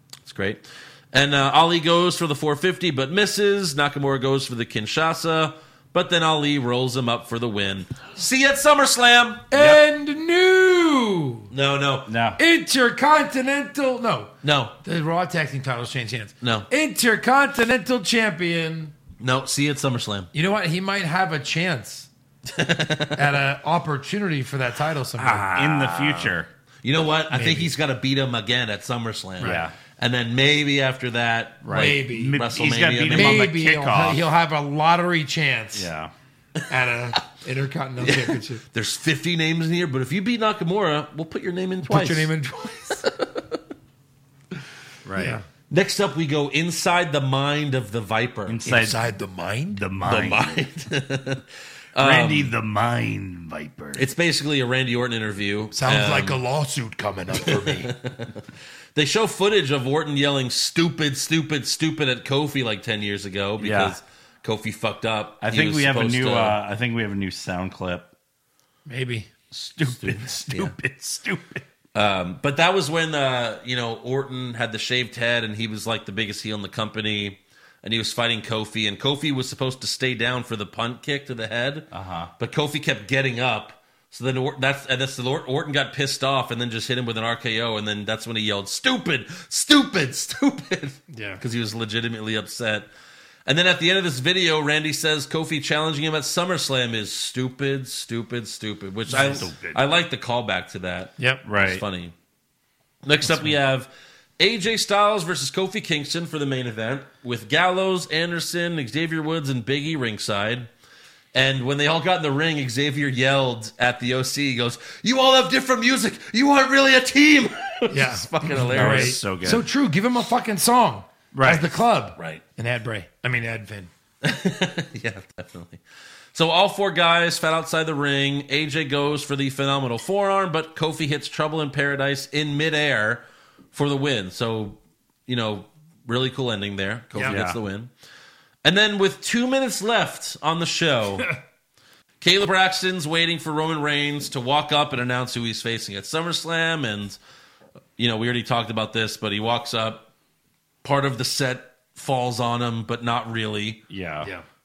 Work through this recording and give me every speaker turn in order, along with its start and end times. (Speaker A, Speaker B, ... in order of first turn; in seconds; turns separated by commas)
Speaker A: 0.2-9.5, Speaker B: 9.5-11.5, Speaker C: 9.6-9.8, Speaker A: 11.5-12.1, Speaker C: 12.1-12.4, Speaker B: 12.4-14.3, Speaker A: 14.4-14.7, Speaker B: 14.8-18.9, Speaker A: 16.4-16.7, Speaker A: 19.2-20.3, Speaker B: 20.3-22.1, Speaker A: 22.4-23.4, Speaker B: 23.1-25.5, Speaker A: 25.2-33.5, Speaker C: 25.5-26.5, Speaker B: 27.3-27.7, Speaker C: 29.4-29.7, Speaker C: 31.6-34.3, Speaker B: 31.7-32.4, Speaker B: 33.1-35.9, Speaker C: 35.7-36.1, Speaker B: 36.7-38.6, Speaker A: 38.0-42.3, Speaker B: 41.9-43.0, Speaker A: 42.9-43.6, Speaker C: 45.0-45.4, Speaker B: 45.2-45.4, Speaker A: 45.7-48.6, Speaker C: 48.5-49.0, Speaker B: 48.6-49.8, Speaker C: 49.7-50.5, Speaker A: 50.0-52.5, Speaker C: 52.0-54.1, Speaker A: 53.9-56.4, Speaker B: 55.7-57.9, Speaker A: 57.4-58.4, Speaker A: 58.9-66.6, Speaker C: 63.6-64.0, Speaker C: 65.4-68.1, Speaker B: 68.9-69.3, Speaker C: 69.5-71.6, Speaker A: 69.8-70.7, Speaker A: 71.9-92.9, Speaker C: 81.9-82.3, Speaker B: 91.1-91.4, Speaker A: 93.5-102.1, Speaker C: 99.1-99.8, Speaker C: 101.4-101.8, Speaker A: 103.0-110.7, Speaker A: 111.3-119.2, Speaker B: 117.9-123.9, Speaker C: 118.7-119.6, Speaker C: 121.3-121.7, Speaker A: 122.2-122.4, Speaker A: 124.2-125.8, Speaker A: 126.3-137.9, Speaker B: 137.1-137.4, Speaker C: 137.2-137.6, Speaker A: 138.6-141.3, Speaker A: 142.2-147.2, Speaker A: 148.0-150.1, Speaker A: 150.8-153.8, Speaker C: 153.9-154.3